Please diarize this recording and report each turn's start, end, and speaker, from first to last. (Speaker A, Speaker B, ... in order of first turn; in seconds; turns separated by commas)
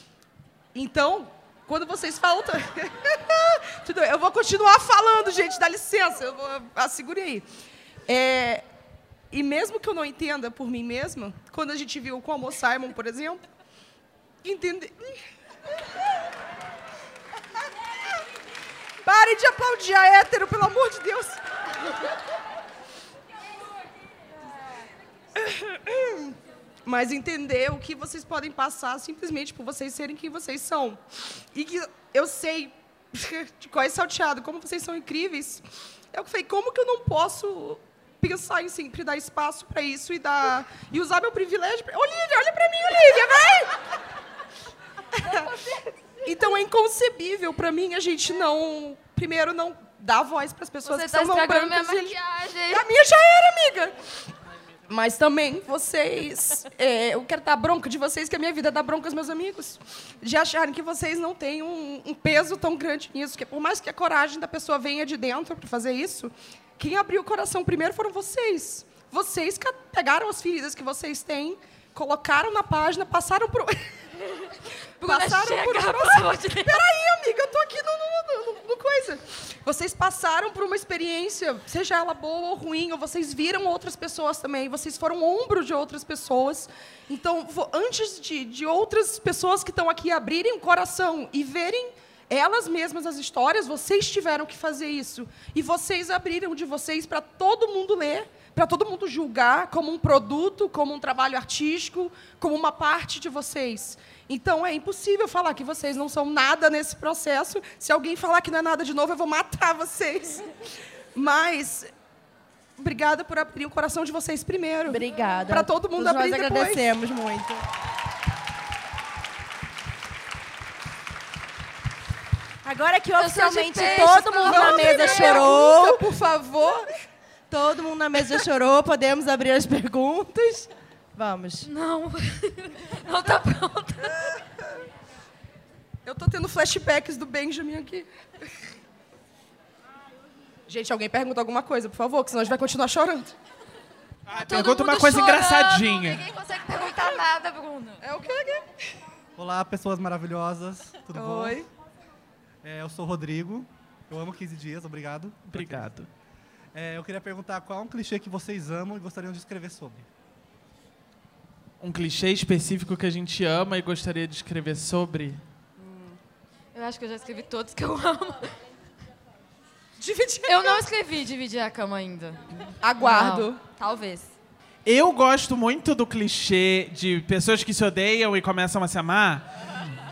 Speaker A: 0.7-7.5, Speaker A: 8.1-8.6, Speaker A: 9.3-13.4, Speaker A: 14.4-15.1, Speaker A: 19.0-21.4, Speaker A: 25.3-31.0, Speaker A: 31.5-43.8, Speaker A: 45.2-45.5, Speaker B: 45.3-45.8, Speaker A: 46.2-52.2, Speaker B: 50.8-52.8, Speaker A: 52.7-54.0, Speaker A: 54.9-73.9, Speaker B: 75.0-76.8, Speaker A: 75.0-110.5, Speaker A: 111.1-111.9, Speaker A: 112.8-116.8, Speaker C: 114.8-117.6, Speaker C: 122.6-126.1, Speaker B: 123.2-125.5, Speaker A: 124.0-126.9, Speaker C: 127.5-131.7, Speaker B: 131.7-134.3, Speaker A: 136.0-138.1, Speaker A: 140.7-143.3, Speaker D: 144.3-146.2, Speaker B: 144.3-148.0, Speaker A: 148.0-148.7, Speaker E: 149.4-151.6, Speaker A: 151.1-151.7, Speaker E: 152.6-155.9, Speaker D: 155.5-156.1, Speaker E: 156.7-160.1, Speaker D: 161.8-165.4, Speaker B: 166.7-168.6, Speaker A: 170.0-170.8, Speaker B: 170.4-174.3, Speaker A: 172.8-173.6, Speaker D: 174.8-179.4